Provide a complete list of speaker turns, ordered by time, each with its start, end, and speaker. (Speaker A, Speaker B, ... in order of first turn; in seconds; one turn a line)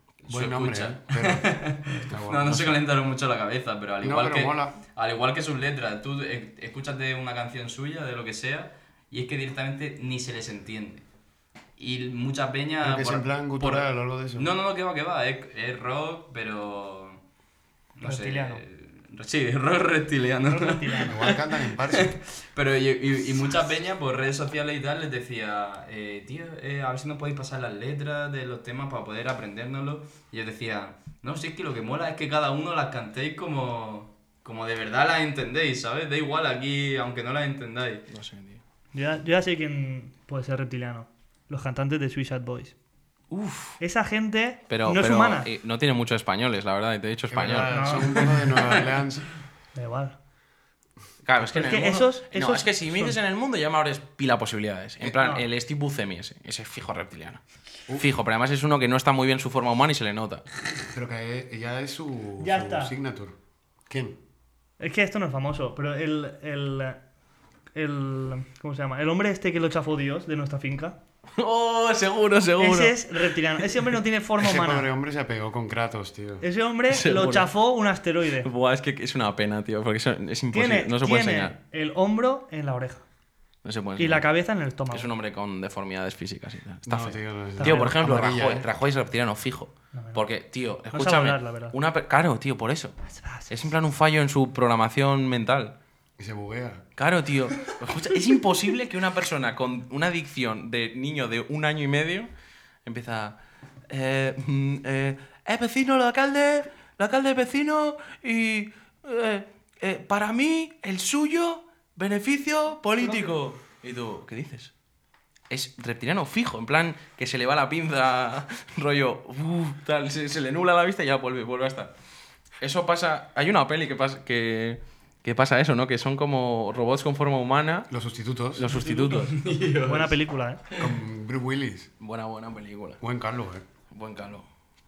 Speaker A: 0.2-11.0
Speaker B: 0.3-2.8
Speaker B: 4.0-4.8
Speaker A: 11.8-17.2
Speaker B: 12.8-14.5
Speaker A: 18.0-38.1
Speaker C: 18.0-18.6
Speaker C: 20.5-21.3
Speaker B: 21.1-22.1
Speaker D: 38.1-38.6
Speaker C: 38.9-42.8
Speaker D: 43.3-43.8
Speaker C: 43.8-45.5
Speaker D: 44.7-48.1
Speaker B: 47.3-49.3
Speaker C: 47.6-48.6
Speaker C: 49.8-50.2
Speaker D: 51.2-57.4
Speaker C: 51.4-53.2
Speaker C: 55.2-55.4
Speaker D: 58.0-60.4
Speaker B: 60.9-63.4
Speaker C: 62.4-62.9
Speaker B: 63.9-64.2
Speaker C: 64.8-67.0
Speaker C: 67.8-71.0
Speaker D: 71.4-73.9
Speaker C: 72.6-74.9
Speaker B: 74.4-76.4
Speaker C: 76.4-78.5
Speaker D: 76.9-77.5
Speaker D: 78.4-81.5
Speaker C: 80.5-83.0
Speaker D: 83.6-84.3
Speaker C: 84.0-85.1
Speaker D: 84.9-92.9
Speaker B: 86.9-88.7
Speaker C: 87.6-88.0
Speaker C: 89.9-90.3
Speaker C: 90.9-91.8
Speaker C: 93.1-93.7
Speaker D: 93.5-95.8
Speaker B: 96.2-96.8
Speaker D: 97.0-102.3
Speaker D: 102.8-103.4
Speaker D: 103.9-114.7
Speaker D: 115.5-121.9
Speaker D: 122.6-127.9
Speaker B: 127.9-128.7
Speaker D: 128.6-129.4
Speaker A: 128.7-130.2
Speaker C: 129.8-130.6
Speaker B: 130.8-131.9
Speaker D: 132.0-133.0
Speaker B: 133.0-133.6
Speaker D: 133.9-134.5